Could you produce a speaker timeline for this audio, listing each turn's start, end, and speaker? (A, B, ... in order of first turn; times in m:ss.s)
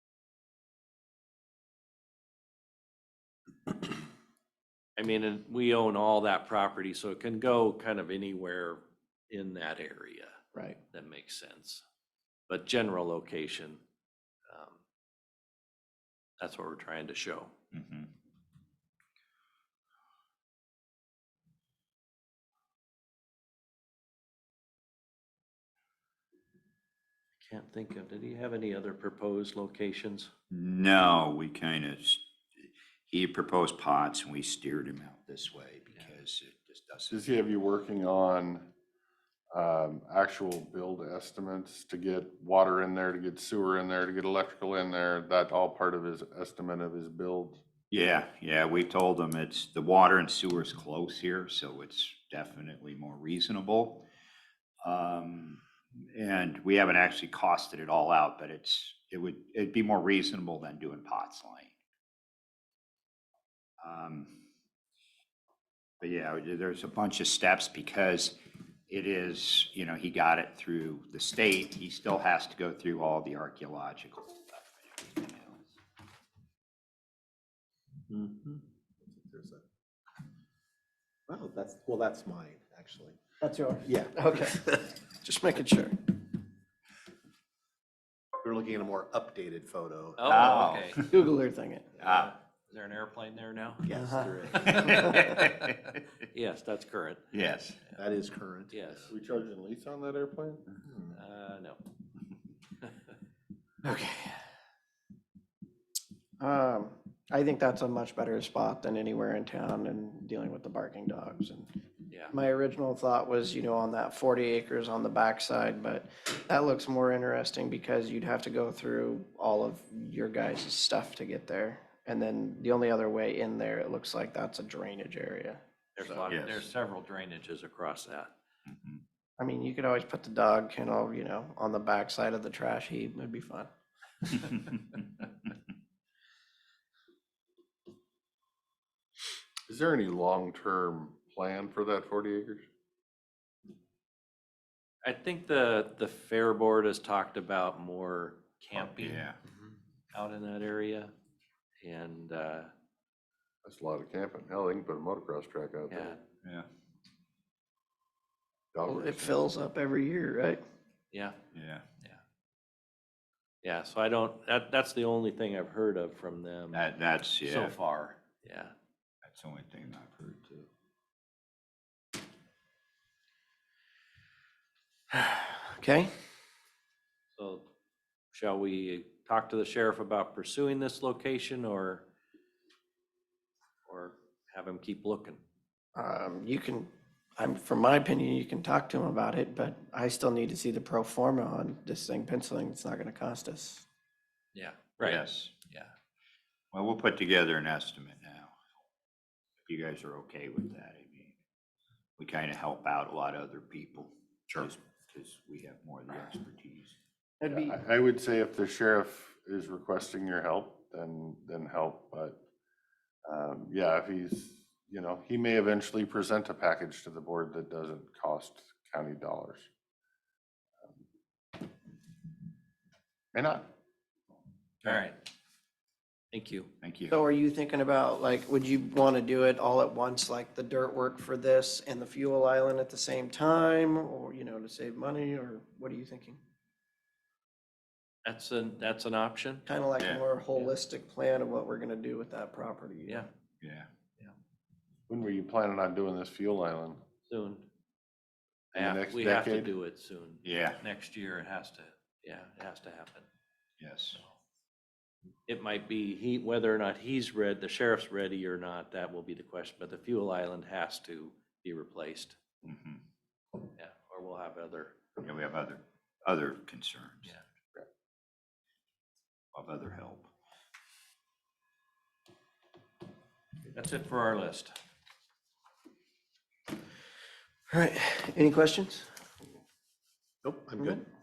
0:05.0-0:10.4 A
0:10.9-0:11.8 A
0:12.5-0:13.8 A
0:14.5-0:14.8 A
0:16.4-0:17.5 A
0:17.7-0:18.1 B
0:27.4-0:30.3 A
0:30.5-0:37.2 B
0:37.1-0:38.7 C
0:39.5-0:47.6 C
0:47.9-0:54.0 B
0:54.8-1:01.7 B
1:03.8-1:04.4 B
1:06.0-1:08.4 B
1:08.9-1:15.7 B
1:18.1-1:19.6 D
1:21.3-1:23.2 D
1:23.4-1:26.1 E
1:23.8-1:24.9 D
1:28.4-1:30.2 D
1:30.2-1:31.0 A
1:30.2-1:31.1 B
1:31.1-1:31.9 E
1:32.0-1:32.3 B
1:32.1-1:33.8 A
1:33.8-1:35.0 D
1:33.8-1:35.2 E
1:34.5-1:36.0 B
1:36.3-1:37.2 A
1:37.3-1:37.8 B
1:38.0-1:39.1 D
1:38.7-1:39.1 A
1:39.1-1:40.7 C
1:40.8-1:41.2 D
1:41.1-1:41.8 A
1:43.8-1:44.4 E
1:46.4-1:51.7 E
1:52.3-2:06.2 E
2:06.0-2:08.3 A
2:06.3-2:06.6 B
2:08.7-2:09.0 B
2:09.4-2:13.7 E
2:19.7-2:22.7 C
2:25.0-2:29.2 A
2:28.7-2:29.4 B
2:30.1-2:31.1 A
2:31.8-2:32.7 A
2:33.6-2:36.2 C
2:35.9-2:36.2 A
2:38.7-2:39.4 C
2:38.8-2:40.6 E
2:41.1-2:41.4 A
2:41.5-2:41.8 B
2:43.6-2:46.8 A
2:46.7-2:47.7 B
2:47.4-2:48.7 A
2:49.2-2:50.7 B
2:55.1-2:56.1 E
2:57.3-2:57.7 A
2:58.3-3:02.0 A
3:03.8-3:05.4 A
3:05.9-3:13.8 E
3:14.5-3:15.9 A
3:15.0-3:15.5 B
3:16.7-3:18.5 B
3:19.6-3:21.3 B
3:22.2-3:26.9 B
3:27.4-3:27.8 E
3:27.5-3:32.4 C
3:33.2-3:39.7 C
3:43.3-3:43.7 C
3:44.8-3:45.2 A
3:46.3-3:46.7 A
3:46.8-3:47.2 B
3:47.1-3:56.4 E
3:58.2-3:59.7 A
3:59.6-4:03.2 E
4:00.0-4:00.2 B
4:03.6-4:03.9 B
4:05.1-4:07.0 C
4:07.3-4:07.6 A
4:08.7-4:09.7 C
4:08.7-4:13.2 A
4:10.4-4:10.8 B
4:13.8-4:14.2 B
4:15.5-4:22.4 A
4:22.6-4:23.0 B
4:23.8-4:25.0 A
4:25.2-4:27.3 B
4:29.5-4:30.3 B
4:33.7-4:34.7 A
4:37.7-4:39.1 E
4:40.4-4:41.0 D